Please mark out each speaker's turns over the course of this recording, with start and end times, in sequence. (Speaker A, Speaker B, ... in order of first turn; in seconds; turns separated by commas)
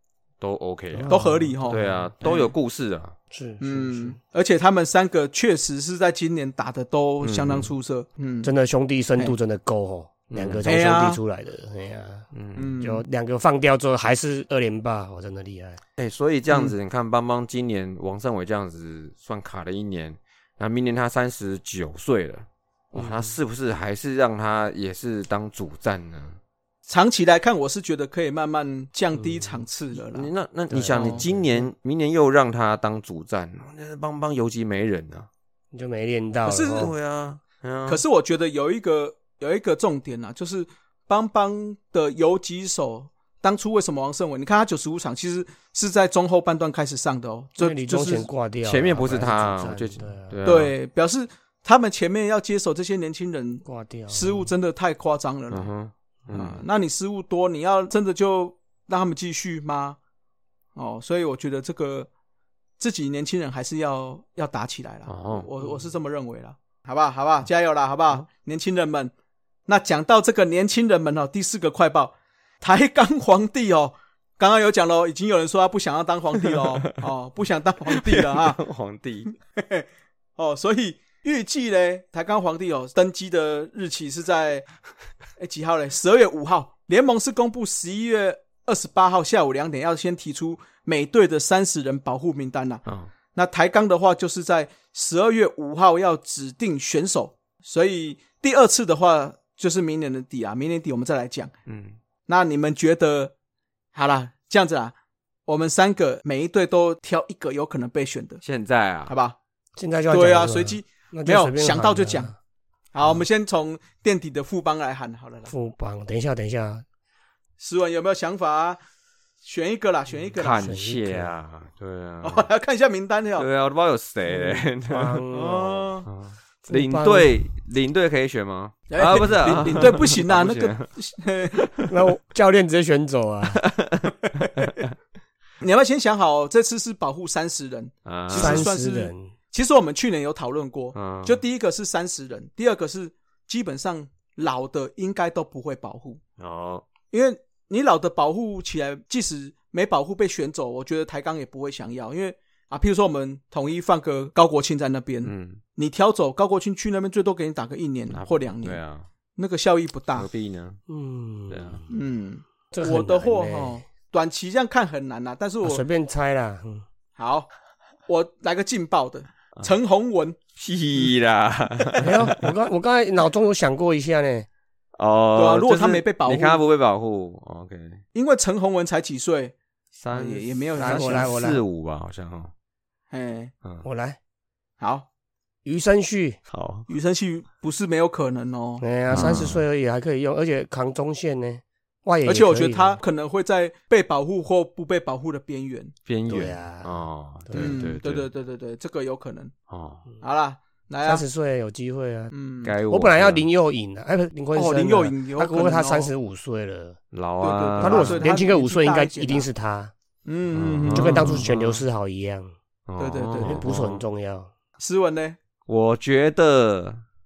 Speaker A: 0.4-1.1, Speaker B: 0.9-2.0, Speaker C: 1.1-2.5, Speaker A: 1.6-3.1, Speaker B: 3.3-4.2, Speaker C: 3.6-8.5, Speaker A: 7.2-7.7, Speaker B: 8.4-12.3, Speaker A: 10.3-10.7, Speaker C: 10.6-11.2, Speaker A: 12.3-12.7, Speaker C: 12.6-13.0, Speaker B: 12.8-15.8, Speaker A: 16.0-26.4, Speaker B: 22.9-23.4, Speaker C: 26.9-30.3, Speaker B: 29.2-29.5, Speaker A: 30.0-35.3, Speaker B: 30.7-31.7, Speaker C: 30.9-31.2, Speaker B: 35.7-36.9, Speaker C: 36.4-36.9, Speaker A: 36.7-38.0, Speaker C: 37.9-48.3, Speaker B: 47.6-50.4, Speaker A: 48.6-50.7, Speaker C: 50.4-55.7, Speaker B: 53.6-54.5, Speaker A: 55.5-56.6, Speaker C: 56.3-60.0, Speaker C: 60.8-62.1, Speaker C: 62.8-69.1, Speaker A: 65.1-65.5, Speaker C: 69.7-78.6, Speaker A: 77.9-79.3, Speaker C: 79.5-79.8, Speaker C: 80.4-84.7, Speaker C: 85.4-92.8, Speaker A: 92.8-93.1, Speaker C: 93.3-101.5, Speaker A: 101.7-102.0, Speaker C: 102.3-103.3, Speaker C: 103.9-104.9, Speaker C: 105.5-108.4, Speaker A: 108.4-109.1, Speaker C: 109.1-109.3, Speaker B: 109.8-112.4, Speaker C: 110.1-112.3, Speaker C: 112.9-115.5, Speaker B: 115.5-116.8, Speaker C: 117.6-118.8, Speaker C: 119.4-120.7, Speaker A: 120.4-122.5, Speaker B: 120.6-121.3, Speaker C: 122.2-123.5, Speaker A: 123.4-125.2, Speaker B: 124.3-125.9, Speaker C: 125.3-126.1, Speaker A: 126.0-130.9, Speaker B: 126.7-127.4, Speaker C: 128.9-131.7, Speaker A: 131.6-131.9, Speaker B: 131.9-133.6, Speaker A: 133.5-134.8, Speaker C: 135.6-146.2, Speaker A: 138.1-138.7, Speaker B: 138.3-139.3, Speaker A: 140.9-141.4, Speaker A: 146.4-146.8, Speaker C: 147.1-158.8, Speaker A: 155.2-155.6, Speaker A: 158.1-159.1, Speaker C: 159.3-160.3, Speaker A: 160.1-160.8, Speaker B: 160.9-161.8, Speaker A: 161.5-161.8, Speaker C: 161.9-165.8, Speaker B: 162.7-163.8, Speaker B: 165.6-166.8, Speaker C: 167.2-167.5, Speaker C: 168.1-170.3, Speaker A: 170.6-172.3, Speaker B: 172.0-174.5, Speaker A: 175.0-178.0, Speaker C: 175.3-176.6, Speaker C: 178.1-179.5, Speaker A: 179.9-182.5, Speaker C: 180.1-181.3, Speaker B: 180.8-181.6, Speaker C: 183.1-183.5, Speaker B: 183.8-184.2, Speaker C: 184.8-185.1, Speaker B: 185.6-186.4, Speaker A: 186.5-186.9, Speaker C: 186.9-189.5, Speaker B: 188.8-193.0, Speaker A: 189.1-189.6, Speaker C: 192.2-195.9, Speaker A: 196.1-198.3, Speaker B: 196.3-197.8, Speaker C: 197.5-199.5, Speaker A: 199.7-200.1, Speaker C: 200.2-201.2, Speaker B: 201.0-202.3, Speaker C: 202.3-202.7, Speaker A: 202.6-203.4, Speaker B: 202.9-207.0, Speaker C: 204.5-206.1, Speaker A: 207.1-208.2, Speaker C: 207.4-209.5, Speaker B: 207.8-209.9, Speaker C: 210.2-211.4, Speaker A: 210.5-211.8, Speaker B: 210.9-212.5, Speaker A: 212.9-214.0, Speaker C: 213.0-213.6, Speaker B: 213.4-214.5, Speaker C: 214.8-215.4, Speaker A: 215.7-217.0